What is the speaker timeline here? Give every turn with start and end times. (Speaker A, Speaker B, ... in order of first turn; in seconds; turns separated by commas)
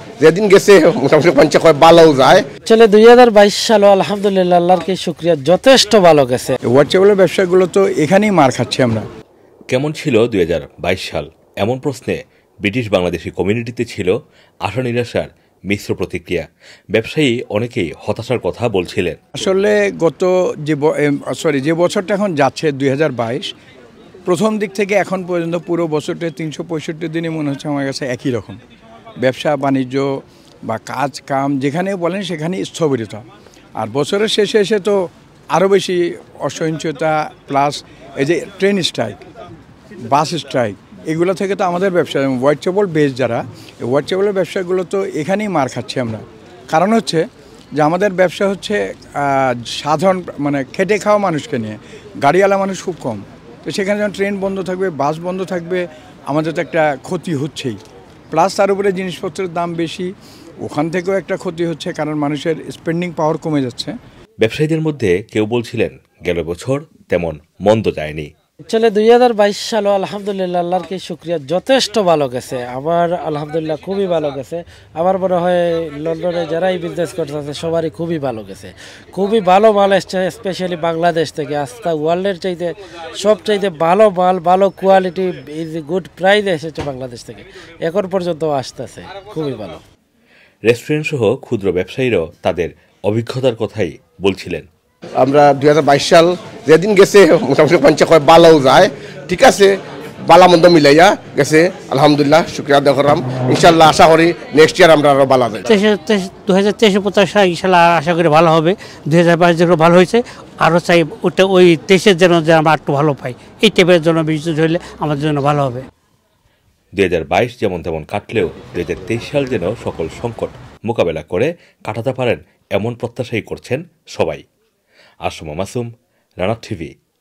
Speaker A: 0.2-2.4, Speaker B: 2.7-6.6, Speaker C: 6.7-9.1, Speaker D: 9.7-14.1, Speaker D: 14.7-19.2, Speaker C: 19.4-23.5, Speaker C: 24.3-28.6, Speaker C: 29.2-30.1, Speaker C: 30.7-33.2, Speaker C: 33.8-39.2, Speaker C: 40.1-47.2, Speaker C: 47.8-57.8, Speaker C: 58.3-60.1, Speaker C: 60.6-64.0, Speaker D: 64.4-68.3, Speaker B: 68.7-89.8, Speaker D: 90.7-94.7, Speaker A: 95.2-99.8, Speaker A: 100.3-105.7, Speaker E: 105.7-115.8, Speaker D: 117.0-124.4, Speaker D: 125.2-125.9, Speaker D: 126.4-126.9